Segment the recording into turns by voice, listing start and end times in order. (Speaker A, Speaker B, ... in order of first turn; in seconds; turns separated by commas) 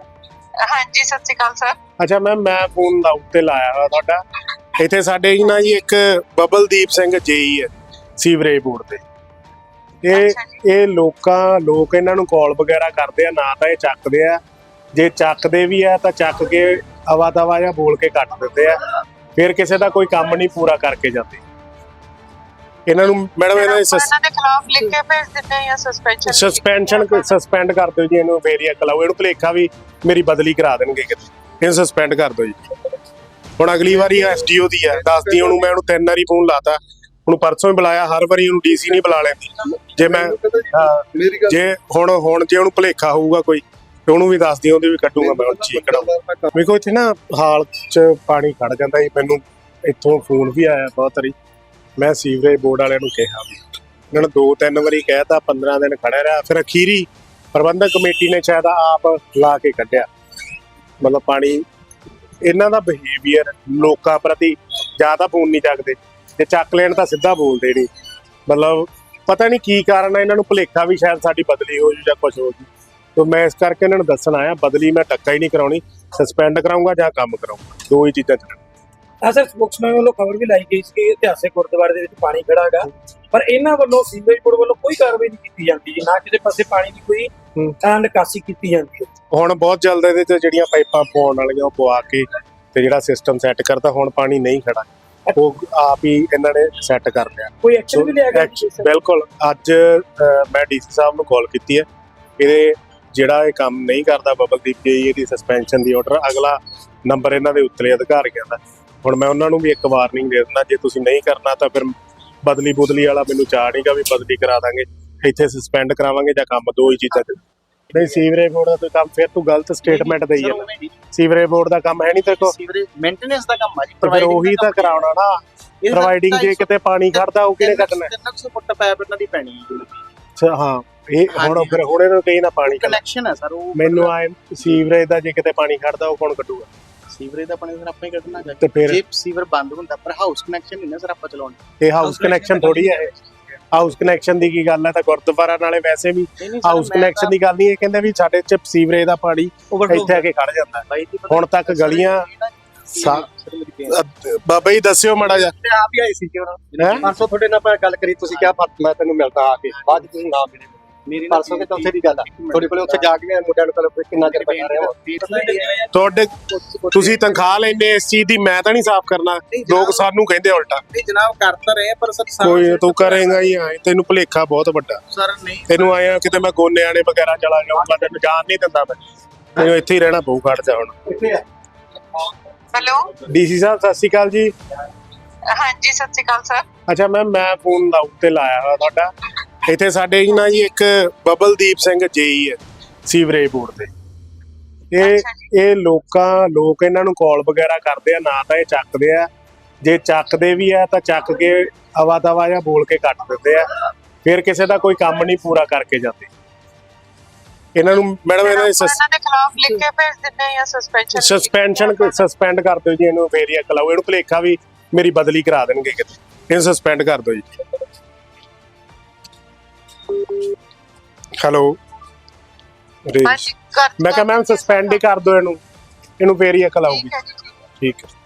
Speaker A: 0.6-1.8, Speaker B: 2.0-4.2, Speaker B: 4.8-9.0, Speaker B: 10.0-14.4, Speaker A: 10.1-10.6, Speaker B: 14.9-18.8, Speaker B: 19.4-21.4, Speaker B: 22.9-24.1, Speaker A: 23.5-27.3, Speaker B: 26.2-32.6, Speaker B: 33.6-51.3, Speaker C: 35.1-35.5, Speaker C: 40.0-41.5, Speaker C: 45.2-46.5, Speaker B: 52.0-53.6, Speaker B: 54.1-60.1, Speaker B: 61.0-61.6, Speaker B: 62.4-67.9, Speaker B: 68.5-78.6, Speaker D: 79.2-89.1, Speaker B: 89.3-101.8, Speaker D: 97.6-98.9, Speaker B: 102.4-117.4, Speaker B: 117.9-122.5, Speaker E: 119.8-120.9, Speaker E: 122.3-125.1, Speaker B: 124.0-125.4, Speaker E: 125.8-130.0, Speaker B: 125.9-128.1, Speaker B: 130.4-133.0, Speaker E: 131.3-131.9, Speaker E: 132.7-134.1, Speaker B: 133.8-136.7, Speaker E: 137.1-141.6, Speaker B: 138.6-139.0, Speaker B: 141.8-143.1, Speaker E: 142.2-142.6, Speaker B: 143.7-152.2, Speaker E: 146.4-147.3, Speaker E: 149.8-150.2, Speaker E: 150.9-154.0, Speaker B: 153.0-153.2, Speaker B: 153.9-155.5, Speaker C: 155.6-160.4, Speaker E: 156.7-157.2, Speaker B: 156.8-157.1, Speaker B: 158.1-160.5, Speaker E: 161.1-163.1, Speaker C: 161.5-162.0, Speaker C: 162.7-164.9, Speaker B: 163.2-164.2, Speaker E: 164.1-165.7, Speaker D: 165.3-165.8, Speaker B: 165.9-166.3, Speaker C: 166.5-167.2, Speaker B: 166.9-170.8, Speaker E: 169.5-170.1, Speaker E: 170.9-173.5, Speaker B: 172.4-175.0, Speaker E: 175.1-175.9, Speaker B: 175.7-179.0, Speaker B: 179.5-181.0, Speaker A: 182.7-183.1, Speaker B: 183.2-184.5, Speaker A: 185.5-186.7, Speaker B: 186.9-189.1, Speaker B: 189.6-193.9, Speaker B: 194.9-199.3, Speaker A: 195.0-195.5, Speaker B: 199.8-203.6, Speaker B: 204.2-206.3, Speaker B: 207.7-209.0, Speaker A: 208.4-212.1, Speaker B: 211.1-217.4, Speaker B: 221.4-221.7, Speaker B: 223.1-225.6, Speaker A: 223.2-225.0, Speaker B: 226.2-227.1, Speaker A: 226.9-227.5, Speaker B: 227.8-228.1